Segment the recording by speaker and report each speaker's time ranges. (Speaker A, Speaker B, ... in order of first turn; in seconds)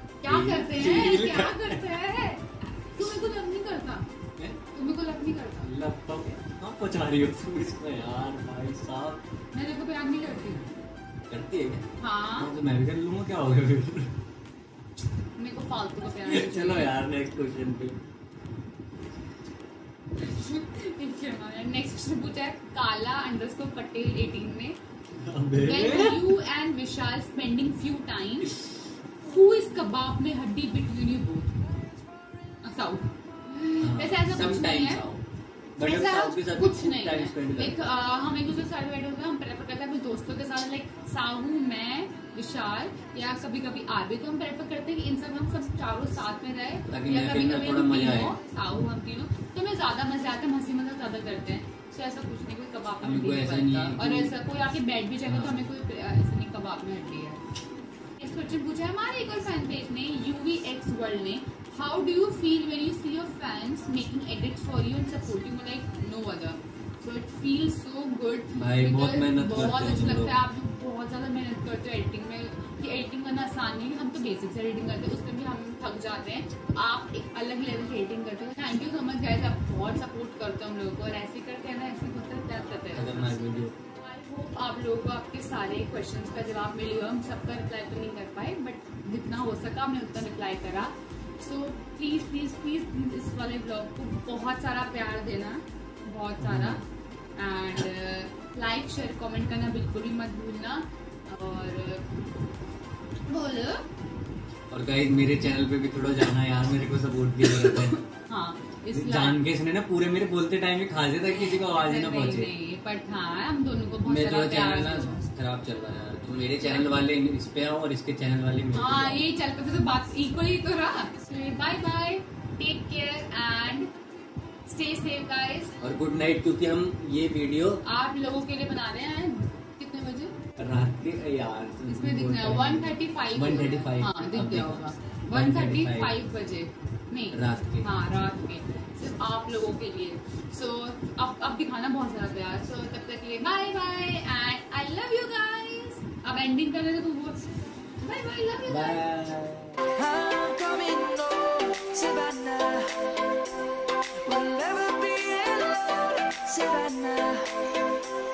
Speaker A: 0.2-4.1, 4.7-5.7, 9.5-10.7, 12.0-12.5, 15.4-16.9, 20.2-24.8, 25.6-28.6, 29.2-31.7, 32.6-35.0, 35.8-57.4, 58.2-83.4, 84.0-96.8, 97.4-102.2, 103.2-103.9, 107.4-109.4, 111.2-115.2, 116.6-117.0, 118.8-123.9, 124.7-125.8, 127.8-130.4, 131.9-149.0
Speaker B: 0.2-2.0, 5.6-9.2, 11.3-14.2, 16.2-18.0, 25.1-26.3, 33.8-35.2, 35.8-37.8, 46.9-48.4, 53.0-54.4, 55.3-55.7, 68.5-70.4, 82.5-83.8, 96.4-96.8, 104.7-108.0, 108.9-112.5, 114.0-119.2, 125.8-127.8, 130.6-136.2, 137.3-137.9, 148.7-149.9
Speaker C: 149.9-153.2, 154.2-157.7